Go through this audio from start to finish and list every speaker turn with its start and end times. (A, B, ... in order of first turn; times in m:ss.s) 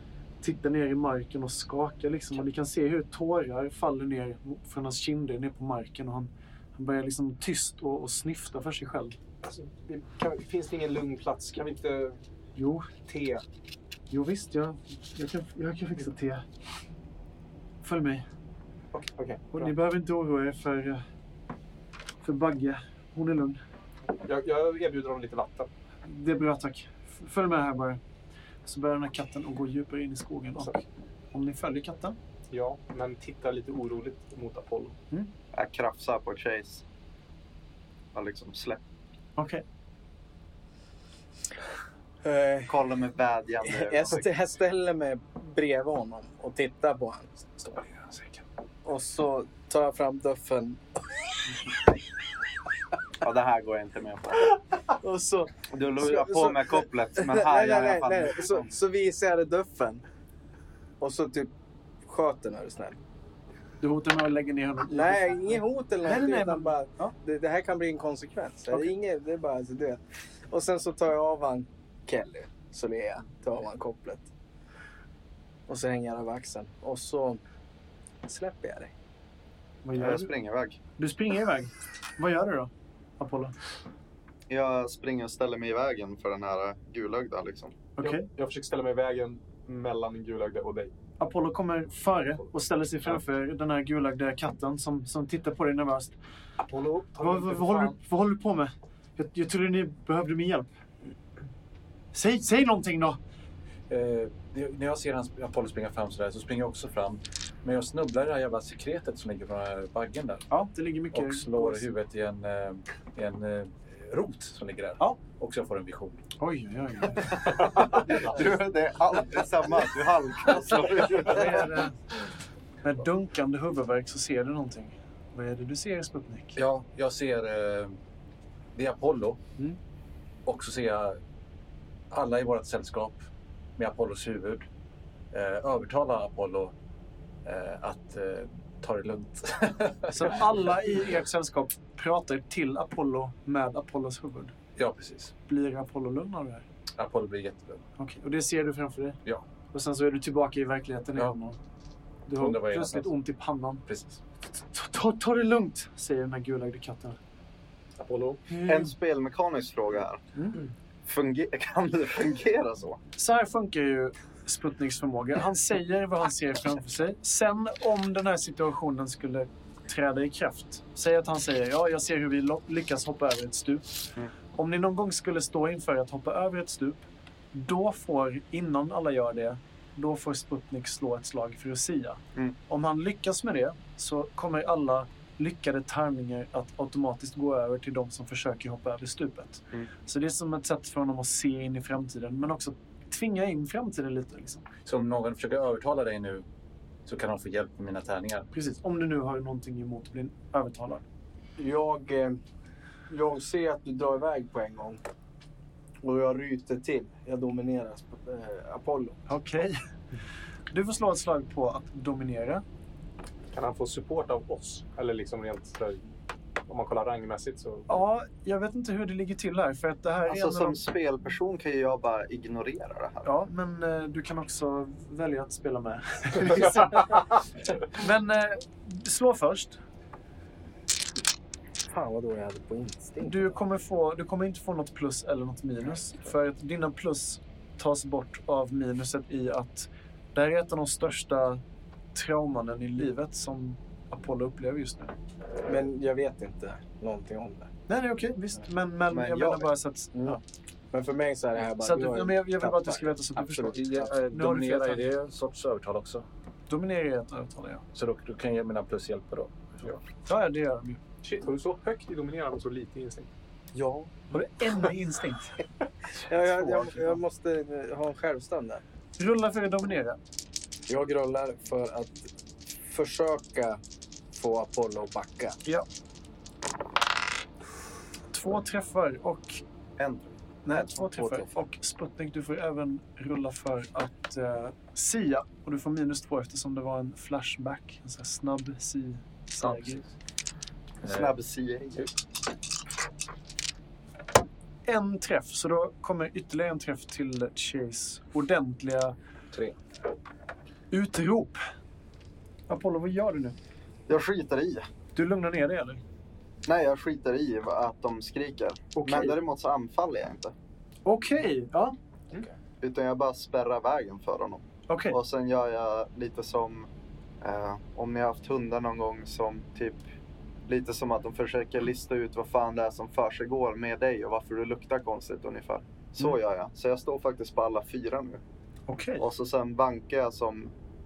0:00.4-0:09.2 A
0:09.4-0:12.2 B
0:12.6-0:12.9 A
0:13.0-0:13.4 B
0:14.1-0:16.4 A
0:17.8-0:18.2 A
0:18.9-0:19.7 B
0:19.5-0:21.0 A
0:22.2-0:23.6 A
0:24.2-0:25.7 B
0:26.0-0:28.0 A
0:28.6-0:32.2 A
0:32.5-0:35.0 B
0:35.5-0:36.8 C
0:38.1-0:38.8 C
0:39.4-0:39.6 A
0:42.2-0:42.8 D
0:42.6-0:44.3 C
0:43.6-0:47.3 D
0:47.6-0:48.4 E
0:48.8-0:51.0 D
0:53.2-0:54.5 C
0:54.9-1:00.0 D
0:55.7-0:58.7 C
1:01.0-1:01.5 D
1:02.0-1:03.0 D
1:03.8-1:07.1 A
1:04.9-1:14.3 D
1:15.7-1:17.4 D
1:18.2-1:18.9 D
1:19.8-1:20.3 A
1:19.9-1:20.8 C
1:21.0-1:23.5 A
1:24.5-1:27.7 C
1:28.0-1:28.3 A
1:28.0-1:30.9 B
1:31.2-1:36.2 A
1:36.6-1:38.0 B
1:37.2-1:40.7 A
1:42.1-1:43.2 A
1:43.9-1:50.5 E
1:50.5-1:51.8 A
1:51.1-1:56.2 E
1:56.4-1:57.7 A
1:57.9-2:01.7 C
2:01.1-2:02.0 A
2:02.8-2:06.6 A
2:06.6-2:08.0 E
2:08.7-2:09.4 E
2:10.4-2:11.2 E
2:12.1-2:13.2 E
2:13.8-2:14.6 E
2:15.3-2:16.7 E
2:17.4-2:20.9 E
2:20.1-2:24.5 A
2:24.8-2:25.3 E
2:25.5-2:26.6 A
2:27.0-2:27.8 E
2:28.0-2:29.2 A
2:29.7-2:31.6 A
2:32.3-2:33.8 A
2:32.4-2:33.2 E
2:33.9-2:34.2 E
2:34.7-2:37.2 A
2:38.0-2:38.4 B
2:38.5-2:38.9 A
2:38.6-2:40.2 C
2:40.3-2:40.6 A
2:41.0-2:43.0 C
2:43.1-2:53.9 A
2:54.5-2:57.0 A
2:57.5-3:14.6 A
3:14.8-3:16.4 E
3:17.0-3:18.5 E
3:18.5-3:21.0 A
3:21.6-3:22.4 D
3:23.1-3:25.0 D
3:26.0-3:29.2 D
3:29.3-3:29.8 A
3:30.7-3:32.6 A
3:33.5-3:36.0 B
3:36.7-3:38.0 B
3:37.9-3:40.8 A
3:40.3-3:43.3 C
3:43.2-3:49.8 A
3:51.9-3:53.5 D
3:53.2-4:01.6 A
4:02.1-4:05.1 A
4:05.6-4:07.7 D
4:07.9-4:10.4 A
4:09.1-4:09.7 C
4:10.9-4:14.1 D
4:11.8-4:15.1 A
4:13.7-4:16.2 E
4:16.7-4:17.8 A
4:17.9-4:20.0 E
4:20.2-4:21.0 A
4:21.2-4:23.3 B
4:23.7-4:24.1 D
4:24.3-4:25.6 A
4:26.2-4:28.8 D
4:26.2-4:27.2 A
4:29.2-4:30.2 A
4:30.9-4:33.8 D
4:34.3-4:35.6 D
4:38.3-4:39.6 A
4:40.0-4:41.5 C
4:40.6-4:50.0 A
4:49.6-4:50.1 E
4:51.0-4:52.1 C
4:51.0-4:51.3 E
4:54.8-4:59.2 A
5:00.9-5:01.6 A
5:02.7-5:03.6 A
5:04.1-5:04.8 C
5:05.1-5:06.0 A
5:06.6-5:10.5 C
5:08.9-5:09.4 A
5:11.0-5:11.9 A
5:12.8-5:16.9 C
5:14.9-5:15.2 A
5:17.4-5:20.0 C
5:20.7-5:28.4 C
5:28.9-5:29.2 A
5:29.2-5:30.7 C